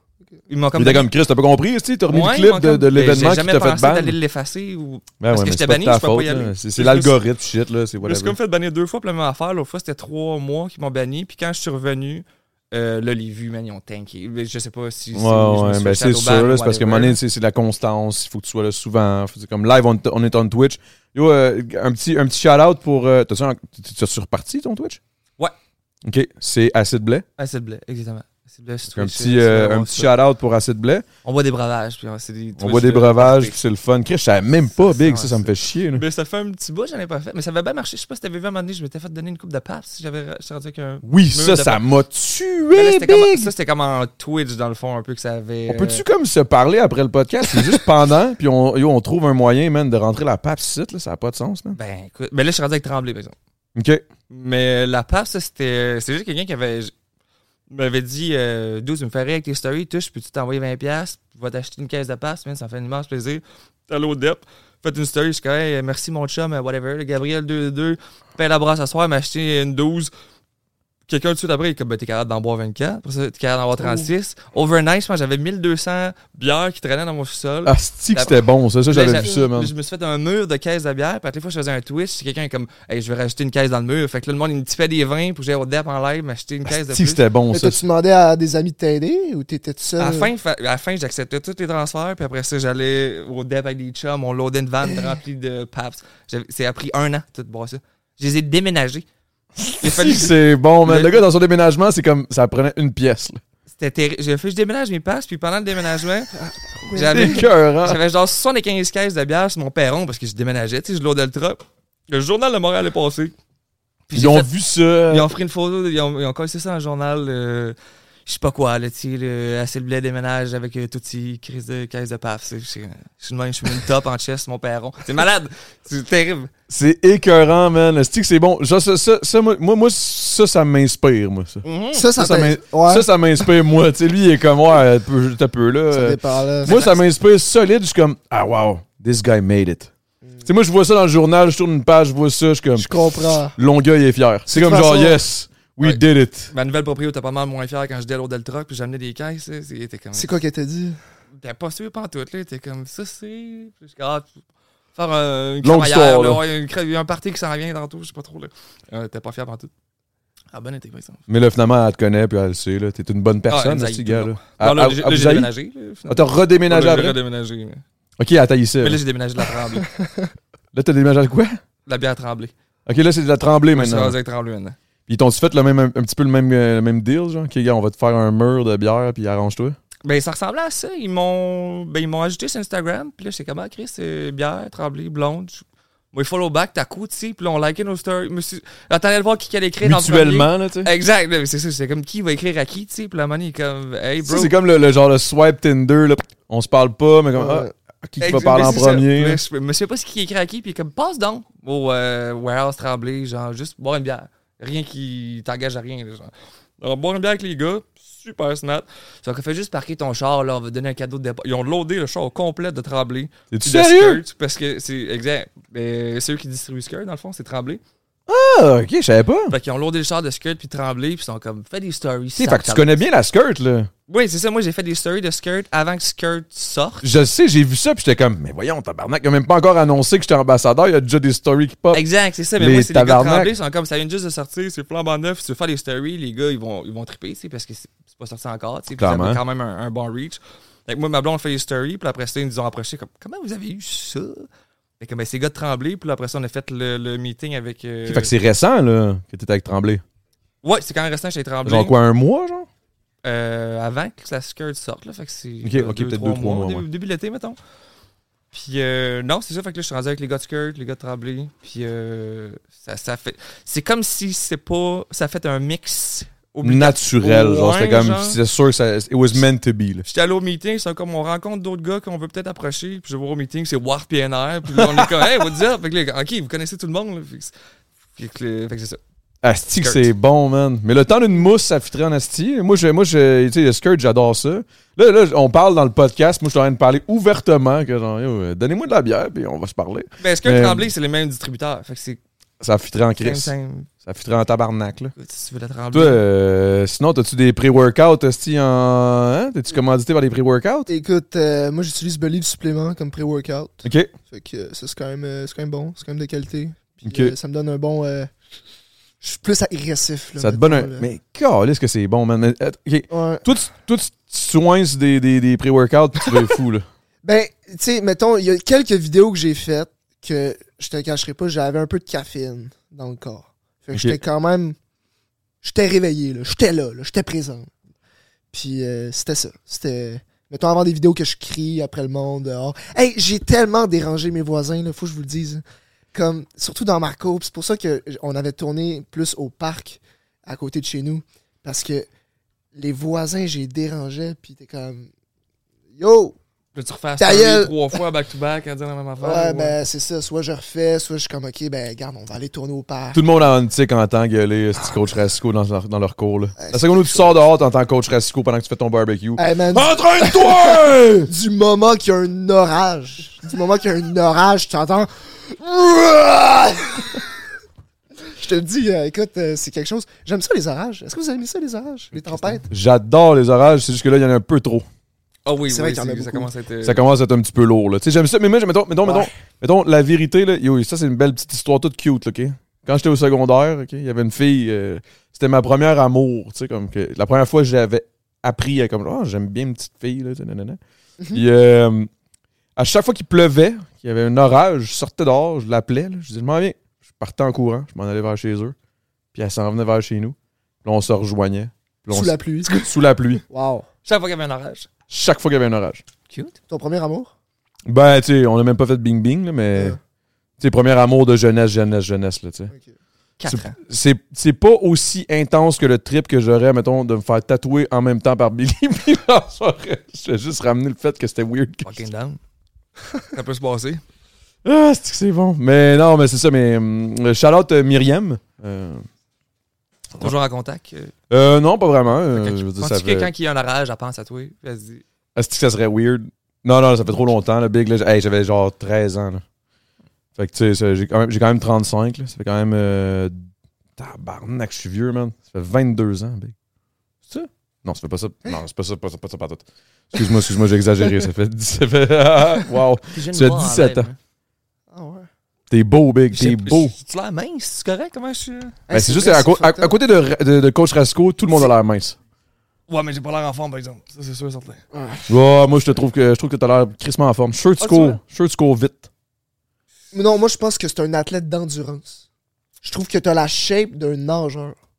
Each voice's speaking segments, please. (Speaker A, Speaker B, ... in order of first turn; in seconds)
Speaker A: 0.5-1.1, 2.1-7.2, 8.0-17.2, 27.4-30.1, 31.2-33.6, 34.8-41.8, 42.7-46.0, 51.7-53.4, 54.3-56.9, 57.7-70.1, 71.1-78.4, 78.9-87.2, 90.0-99.1, 99.8-101.2, 103.8-106.3, 106.9-113.3, 114.1-114.5, 115.1-126.5, 131.6-132.0, 136.7-137.0, 145.8-150.3, 151.4-154.3, 154.9-159.7, 160.5-161.2, 163.5-167.8, 168.8-169.9, 171.9-172.5, 173.7-174.8, 180.0-194.5, 198.2-217.8, 219.5-223.0, 224.1-227.1, 231.9-244.5, 245.0-248.3, 250.6-251.9, 253.2-257.6, 258.5-268.4, 270.1-277.5, 278.1-279.0, 279.7-280.1, 290.2-292.2, 293.2-293.9, 295.2-296.2, 346.8-349.8, 372.1-372.6, 375.5-377.0, 404.1-404.9, 406.3-406.6, 413.4-413.8, 421.8-422.4, 423.3-424.0, 430.2-431.1, 432.3-435.0, 453.1-454.2, 456.3-458.8, 462.9-464.8, 467.8-468.2
Speaker B: 0.8-4.2, 5.2-8.4, 15.1-25.0, 26.0-27.2, 28.9-31.1, 32.6-36.0, 41.0-43.5, 45.7-51.8, 53.8-54.0, 77.7-79.7, 86.7-87.8, 99.6-103.4, 107.1-108.0, 114.1-115.3, 126.7-131.6, 132.2-139.9, 140.4-146.5, 155.6-156.4, 161.3-165.5, 166.1-167.2, 168.2-169.0, 170.7-171.6, 172.9-174.2, 175.1-179.8, 189.8-190.9, 194.2-199.4, 213.5-214.2, 218.3-219.6, 222.4-223.9, 227.0-232.0, 232.6-233.5, 239.0-239.4, 248.1-250.0, 251.7-252.7, 255.6-256.9, 266.6-270.1, 279.4-290.9, 292.6-295.1, 295.9-300.9, 303.8-304.1, 307.0-307.4, 310.4-316.9, 323.9-324.2, 353.1-361.3, 372.7-374.9, 376.8-390.8, 391.3-392.1, 392.8-398.8, 399.3-403.4, 405.1-406.0, 407.9-410.0, 410.6-412.7, 413.4-422.0, 424.6-429.1, 431.3-433.3, 435.4-439.4, 440.4-446.6, 447.3-454.1, 455.7-456.9, 458.9-462.2, 465.3-469.1
Speaker C: 73.8-74.1, 87.5-90.3, 106.3-107.5, 131.9-133.1, 135.9-136.9, 142.8-143.6, 144.5-145.2, 150.1-151.0, 170.0-170.3, 197.3-197.7, 300.9-308.3, 309.2-311.1, 313.1-313.4, 317.2-324.8, 325.6-327.7, 328.5-335.6, 336.1-342.1, 342.8-345.1, 346.0-346.4, 347.2-348.0, 349.2-353.2, 356.6-357.3, 359.4-367.4, 368.3-372.7, 375.7-376.5, 379.1-379.3, 402.1-402.9, 403.5-403.9, 406.7-407.3, 409.7-410.0, 454.9-455.3, 458.9-459.9, 464.9-465.3, 470.1-472.2, 472.8-474.8